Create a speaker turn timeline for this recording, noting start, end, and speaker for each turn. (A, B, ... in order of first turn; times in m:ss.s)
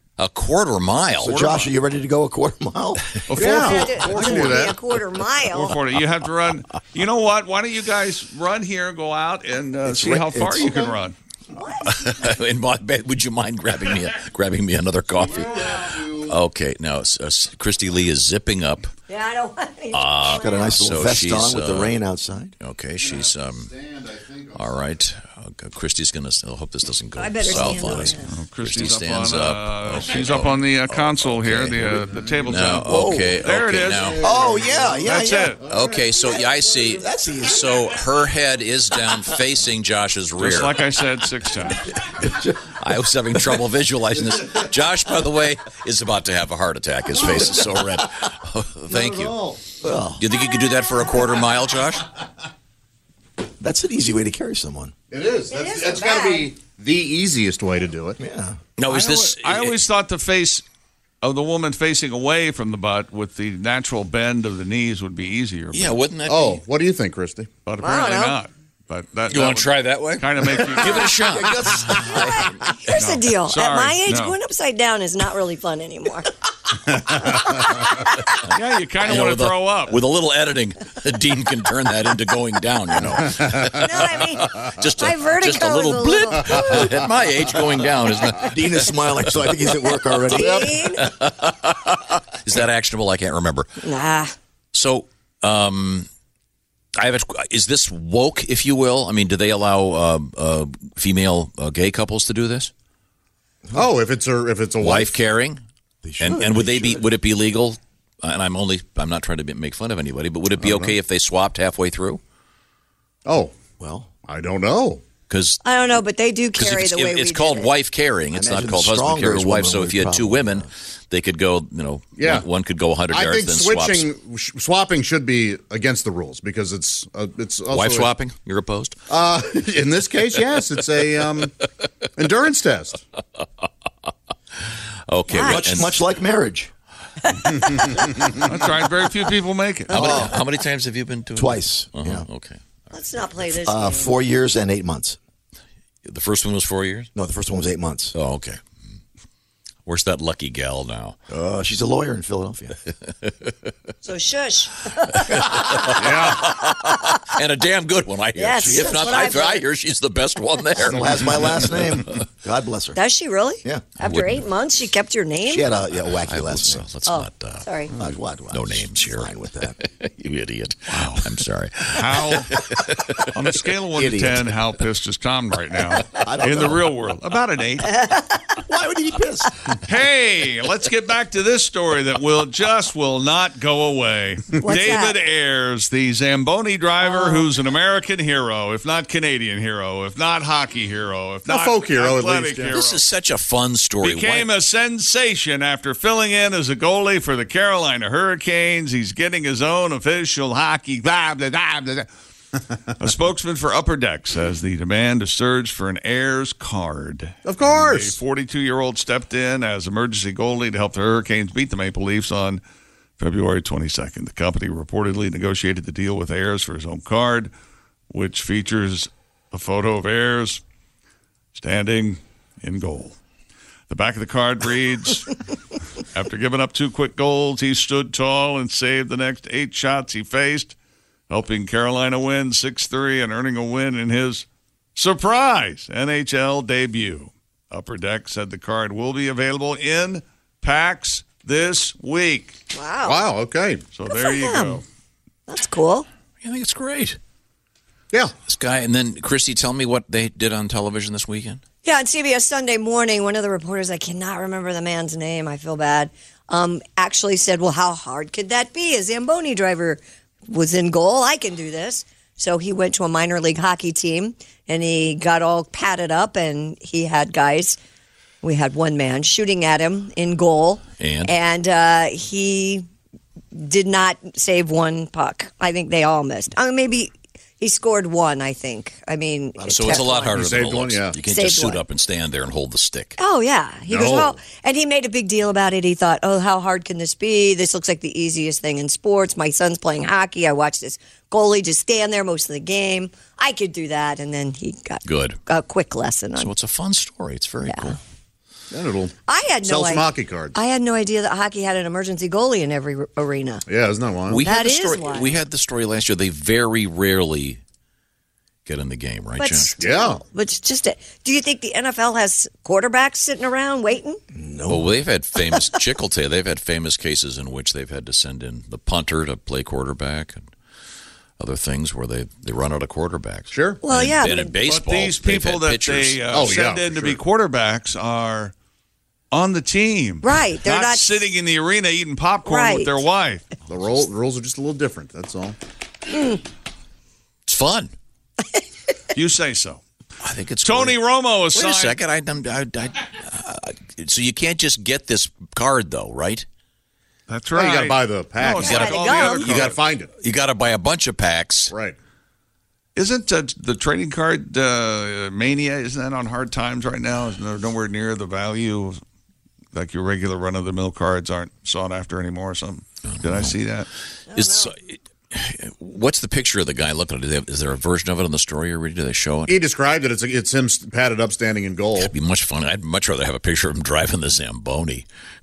0:00.2-0:01.4 A
0:01.2-0:03.1 B
0:01.3-0:01.7 C
0:03.3-0:04.7 C
0:03.4-0:04.8 D
0:03.4-0:05.8 E
0:05.5-0:11.2 C
0:09.8-0:10.7 B
0:10.6-0:11.0 D
0:11.5-0:11.9 E
0:11.8-0:18.9 A
0:15.2-0:16.4 D
0:19.1-0:20.8 E
0:19.9-0:21.9 A
0:20.4-0:22.5 B
0:22.6-0:23.7 A
0:23.0-0:24.9 D
0:24.6-0:31.8 A
0:27.2-0:28.3 E
0:28.2-0:34.1 C
0:32.0-0:32.6 D
0:32.4-0:34.4 A
0:32.9-0:33.4 B
0:34.0-0:34.9 D
0:34.2-0:35.6 B
0:35.0-0:35.6 C
0:35.6-0:40.8 A
0:35.7-0:36.0 D
0:36.2-0:37.9 B
0:40.4-0:41.8 C
0:42.1-0:42.7 B
0:42.8-0:49.4 A
0:48.9-0:49.6 D
0:49.8-0:50.2 B
0:50.2-0:52.1 A
0:53.6-0:54.9 B
0:55.1-0:58.2 D
0:55.5-0:56.5 E
0:58.2-0:58.6 B
0:58.8-0:59.8 A
0:58.9-1:00.6 C
1:01.2-1:06.0 C
1:05.7-1:06.6 A
1:06.2-1:07.5 D
1:07.6-1:11.2 C
1:07.8-1:08.4 E
1:09.3-1:12.6 A
1:11.2-1:12.0 B
1:11.9-1:16.3 E
1:12.9-1:14.4 C
1:17.1-1:18.3 E
1:18.5-1:20.0 C
1:19.0-1:28.8 A
1:23.6-1:27.0 E
1:28.4-1:30.8 B
1:30.2-1:31.1 E
1:30.9-1:33.7 A
1:33.8-1:34.3 E
1:34.7-1:36.1 A
1:37.0-1:42.7 A
1:43.7-1:45.2 D
1:44.8-1:45.6 A
1:46.0-1:47.1 B
1:46.2-1:52.2 A
1:50.6-1:51.0 D
1:53.3-1:53.6 D
1:53.8-1:54.1 B
1:54.3-1:55.0 D
1:55.3-1:55.6 A
1:55.6-1:57.7 E
1:56.6-2:04.1 A
1:58.3-2:00.7 B
2:02.2-2:02.5 D
2:03.1-2:08.1 D
2:07.7-2:09.0 A
2:09.1-2:11.6 D
2:12.2-2:13.0 D
2:14.6-2:15.9 A
2:15.3-2:15.9 E
2:15.4-2:16.7 B
2:17.3-2:18.0 E
2:18.4-2:20.3 C
2:19.9-2:22.6 A
2:21.4-2:22.3 B
2:22.9-2:24.2 E
2:23.6-2:25.2 B
2:26.0-2:27.1 A
2:27.2-2:28.1 B
2:28.2-2:28.6 A
2:29.9-2:31.2 A
2:31.3-2:32.8 B
2:33.2-2:33.7 A
2:34.0-2:37.2 E
2:35.7-2:41.1 A
2:35.9-2:36.4 D
2:38.4-2:39.7 E
2:38.6-2:39.2 B
2:40.8-2:43.0 B
2:43.0-2:45.7 E
2:44.0-2:44.4 A
2:45.5-2:46.8 B
2:46.1-2:47.7 A
2:47.1-2:47.9 E
2:48.0-2:49.8 B
2:48.5-2:53.3 A
2:50.9-2:51.3 C
2:51.9-2:52.5 C
2:53.3-2:57.9 C
2:54.0-2:54.4 B
2:56.2-2:56.8 B
2:58.0-2:58.6 E
2:58.7-2:59.5 B
2:59.8-3:13.1 C
3:04.6-3:05.2 E
3:07.0-3:07.5 E
3:11.5-3:12.8 D
3:12.7-3:14.5 A
3:14.0-3:22.1 C
3:23.0-3:32.6 C
3:27.4-3:28.2 D
3:33.2-3:37.5 C
3:38.1-3:40.6 C
3:41.6-3:43.2 C
3:43.9-3:45.4 C
3:46.0-3:50.8 C
3:51.3-4:02.6 C
4:02.7-4:03.3 E
4:03.0-4:03.8 D
4:03.9-4:04.8 C
4:04.1-4:04.8 E
4:05.5-4:06.1 E
4:06.4-4:07.2 A
4:08.5-4:11.6 A
4:11.8-4:27.8 E
4:28.4-4:32.9 E
4:31.0-4:31.3 A
4:33.5-4:40.4 E
4:39.6-4:40.1 B
4:39.7-4:43.2 A
4:40.3-4:41.2 D
4:41.2-4:41.8 E
4:43.2-4:56.5 E
4:43.9-4:44.4 A
4:55.0-4:55.4 A
4:56.4-4:58.0 A
4:57.7-4:58.0 E
4:58.7-4:59.1 D
4:59.3-5:03.6 E
4:59.6-5:00.6 D
5:03.7-5:04.4 D
5:04.3-5:07.6 A
5:04.4-5:05.4 E
5:08.7-5:09.8 A
5:09.4-5:14.2 E
5:09.8-5:10.2 D
5:14.3-5:14.9 B
5:14.7-5:20.5 A
5:21.4-5:26.3 A
5:23.5-5:23.8 D
5:23.8-5:24.6 E
5:24.6-5:28.5 C
5:26.3-5:27.2 D
5:29.3-5:33.5 C
5:30.2-5:31.3 E
5:32.4-5:32.9 E
5:33.7-5:35.6 D
5:36.1-5:36.4 E
5:37.5-5:37.9 A
5:39.1-5:39.8 C
5:40.2-5:41.0 A
5:40.6-5:42.0 C
5:41.5-5:46.5 A
5:47.3-5:49.8 C
5:47.5-5:50.1 D
5:48.5-5:49.6 E
5:48.6-5:51.7 A
5:51.7-5:52.0 D
5:53.0-5:59.0 C
5:59.7-6:03.9 C
6:03.1-6:03.6 A
6:04.3-6:04.8 E
6:04.4-6:09.6 A
6:09.5-6:12.1 D
6:12.0-6:15.1 A